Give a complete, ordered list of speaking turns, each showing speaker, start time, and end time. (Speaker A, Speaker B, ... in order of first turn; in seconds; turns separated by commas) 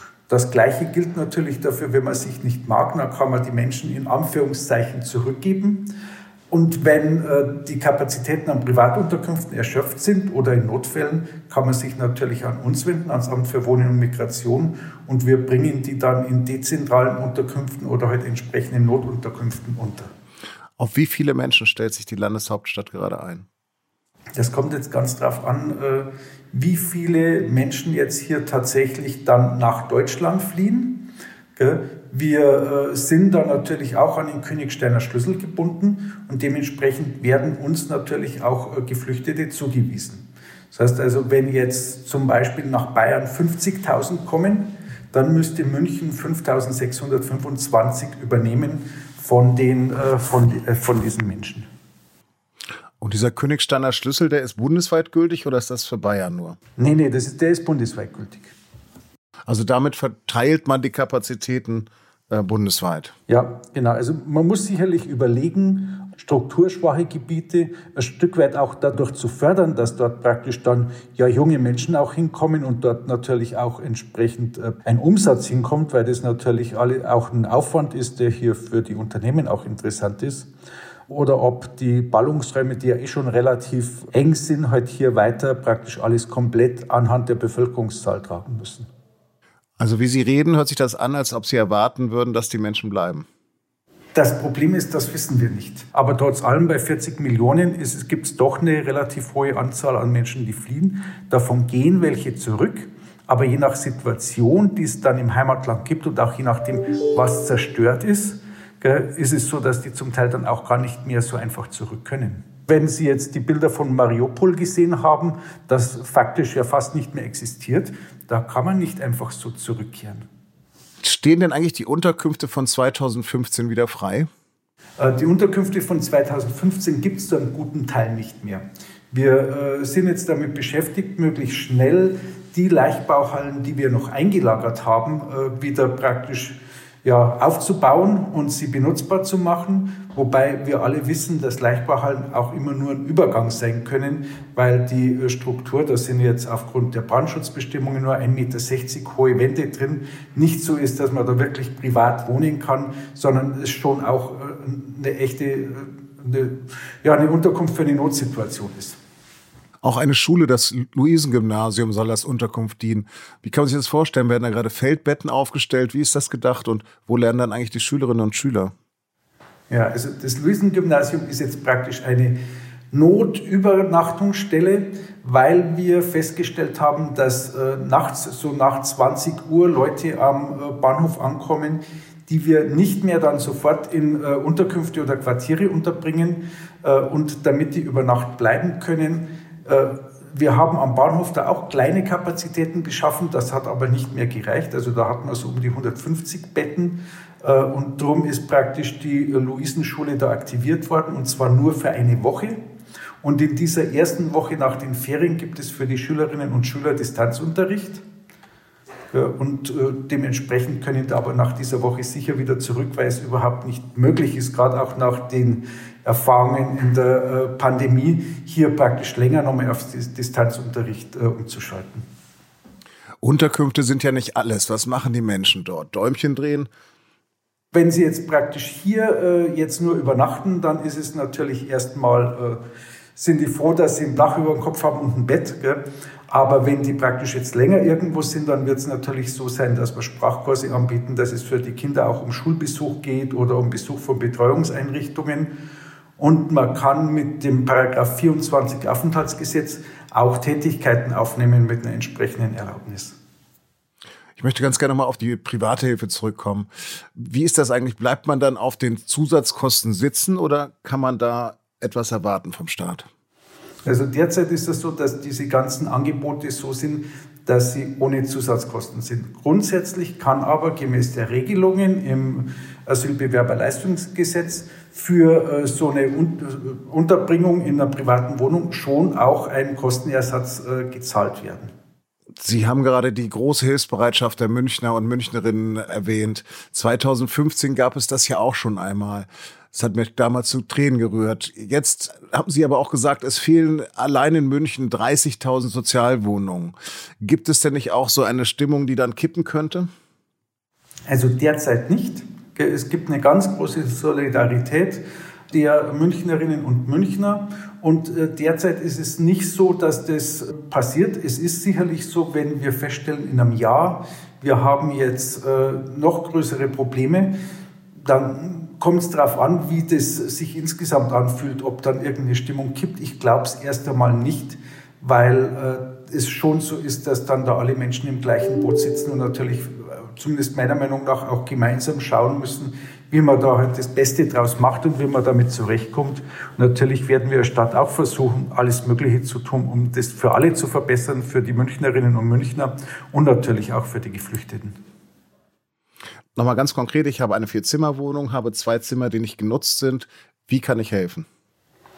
Speaker A: 0.3-5.9, Speaker A: 6.5-20.1, Speaker B: 20.8-23.5, Speaker A: 24.4-31.0, Speaker A: 31.6-51.7, Speaker B: 53.0-56.6, Speaker A: 56.8-58.5, Speaker B: 59.5-63.1, Speaker A: 63.3-80.5, Speaker A: 81.1-88.9, Speaker B: 89.8-93.2, Speaker A: 94.1-120.2, Speaker B: 121.0-124.3, Speaker A: 125.0-159.0, Speaker B: 159.8-168.7, Speaker A: 169.7-172.3, Speaker A: 172.9-202.6, Speaker A: 203.2-208.0, Speaker A: 209.1-222.0, Speaker B: 223.2-226.7, Speaker A: 227.7-232.6, Speaker A: 233.2-245.5, Speaker A: 246.2-253.2, Speaker B: 254.4-263.1, Speaker A: 263.8-281.7, Speaker B: 282.4-299.9, Speaker A: 301.1-317.3, Speaker A: 317.9-344.8, Speaker B: 346.4-351.3